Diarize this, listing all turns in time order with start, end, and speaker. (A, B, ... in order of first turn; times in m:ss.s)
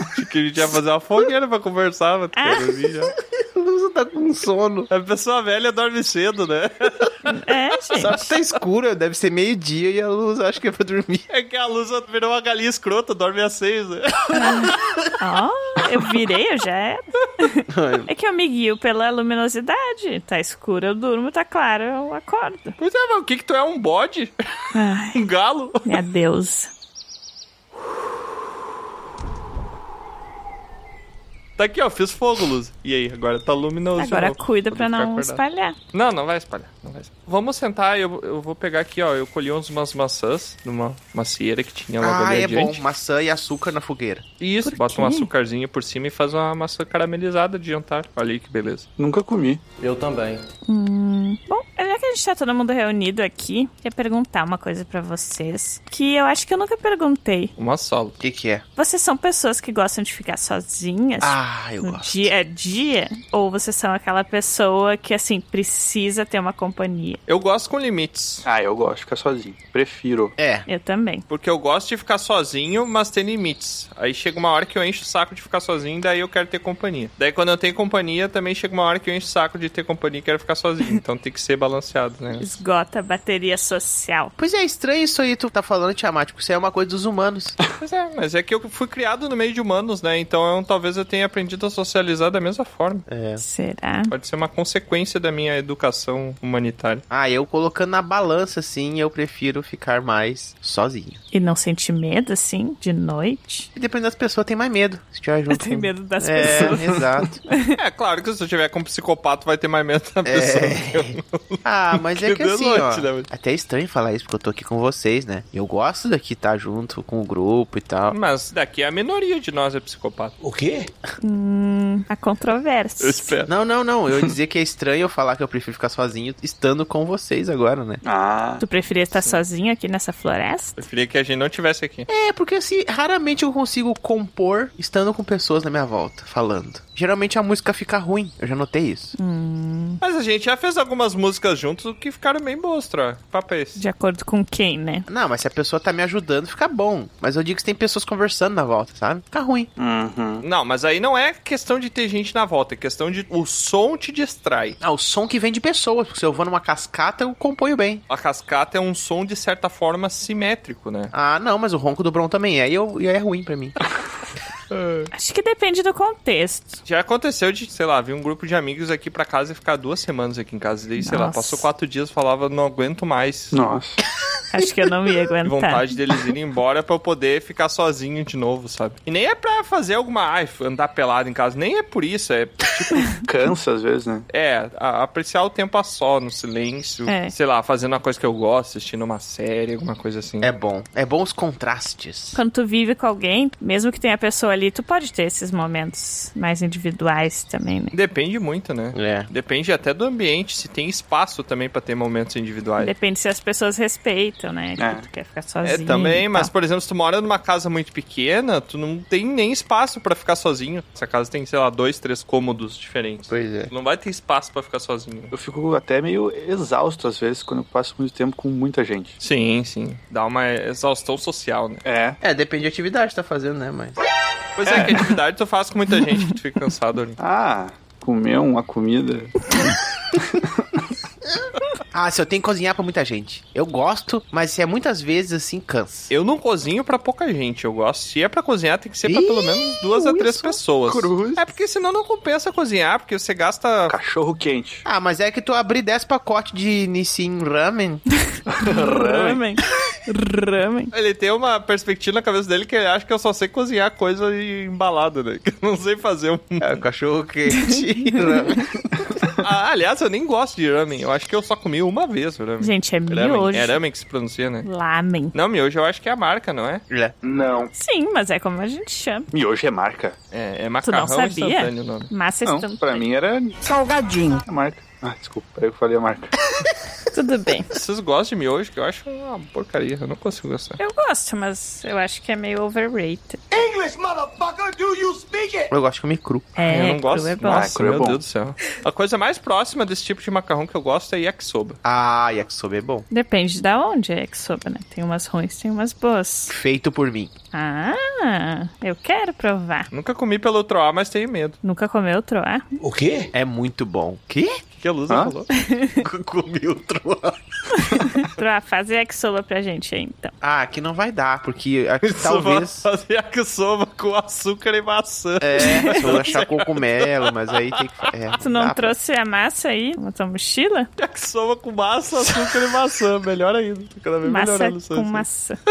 0:00.1-0:03.1 A
0:02.4-0:02.7 B
0:03.4-0:04.9 C
0:04.9-0:07.3 A
0:07.3-0:08.3 B
0:07.9-0:11.3 C
0:11.3-0:14.7 A
0:14.3-0:22.8 B
0:17.7-0:18.1 C
0:22.8-0:24.3 A
0:24.7-0:25.2 B
0:25.1-0:25.9 A
0:25.8-0:26.7 B
0:31.6-0:35.4 A
0:34.0-0:35.8 B
0:35.9-0:42.8 A
0:42.0-0:44.2 C
0:44.4-0:48.9 A
0:44.6-0:45.3 B
0:49.0-0:49.6 D
0:50.7-0:57.5 B
0:57.6-0:58.2 A
0:58.2-0:58.6 C
0:58.8-1:07.2 B
1:01.2-1:02.3 C
1:07.3-1:08.4 A
1:08.4-1:10.3 D
1:10.4-1:10.6 C
1:10.7-1:11.2 B
1:11.3-1:22.5 A
1:22.4-1:24.3 B
1:24.4-1:27.6 C
1:27.8-1:33.1 A
1:33.1-1:33.4 C
1:33.4-1:34.1 B
1:34.1-1:37.0 A
1:37.1-1:41.2 C
1:41.3-1:43.7 B
1:43.8-1:47.4 C
1:45.5-1:47.0 B
1:47.8-1:53.3 A
1:50.2-1:58.2 C
1:58.1-2:00.3 A
2:00.4-2:00.9 E
2:01.2-2:03.3 B
2:03.0-2:03.5 A
2:03.5-2:08.0 C
2:08.0-2:08.6 D
2:08.6-2:10.8 B
2:09.1-2:09.4 A
2:10.8-2:12.1 A
2:12.1-2:19.1 C
2:19.2-2:20.0 B
2:20.0-2:23.8 A
2:23.8-2:25.1 B
2:25.1-2:29.7 C
2:29.8-2:30.4 D
2:30.4-2:34.8 A
2:34.8-2:38.0 C
2:38.1-2:41.1 A
2:41.1-2:43.8 C
2:44.7-2:45.1 A
2:45.1-2:46.8 B
2:46.8-2:53.6 A
2:51.0-2:51.7 B
2:53.5-2:54.0 D
2:54.5-2:55.9 B
2:55.4-3:03.1 A
3:03.2-3:04.2 D
3:04.3-3:10.5 A
3:07.1-3:07.3 B
3:10.4-3:12.4 C
3:12.3-3:17.9 B
3:17.9-3:22.9 A
3:18.9-3:19.3 C
3:22.8-3:26.5 B
3:24.8-3:25.0 D
3:25.6-3:35.3 A
3:33.3-3:33.7 C
3:35.3-3:39.2 D
3:39.2-3:41.8 A
3:41.8-3:42.2 D
3:42.2-3:44.0 C
3:44.6-3:47.2 A
3:44.7-3:45.0 D
3:47.2-3:49.6 D
3:51.9-3:56.1 C
3:56.1-4:04.0 A
3:59.0-4:00.6 C
4:00.9-4:01.4 D
4:03.9-4:04.8 D
4:04.8-4:08.0 C
4:08.5-4:09.4 D
4:08.6-4:10.9 B
4:10.9-4:16.8 A
4:16.6-4:18.6 C
4:17.7-4:18.4 B
4:19.4-4:24.7 A
4:22.6-4:23.8 B
4:24.6-4:25.4 B
4:25.3-4:26.8 A
4:27.2-4:27.7 E
4:27.7-4:29.3 B
4:29.3-4:30.2 D
4:30.3-4:32.1 A
4:30.9-4:33.1 B
4:32.4-4:33.6 D
4:33.6-4:34.4 E
4:34.4-4:36.3 D
4:37.1-4:37.7 B
4:37.7-4:40.8 A
4:40.8-4:43.4 B
4:43.5-4:45.7 E
4:45.7-4:46.5 C
4:46.6-4:47.8 B
4:46.7-4:51.8 A
4:47.5-4:48.2 D
4:51.8-4:53.0 C
4:53.1-4:56.5 B
4:56.5-4:57.3 C
4:57.5-4:59.9 B
4:59.9-5:01.6 A
5:01.6-5:02.6 B
5:02.8-5:03.3 E
5:03.3-5:04.6 C
5:04.8-5:05.5 A
5:05.6-5:06.0 B
5:06.0-5:07.4 C
5:07.9-5:10.3 B
5:10.4-5:12.9 C
5:12.0-5:17.1 A
5:15.4-5:19.0 C
5:18.4-5:20.9 B
5:21.0-5:25.2 A
5:24.2-5:25.6 B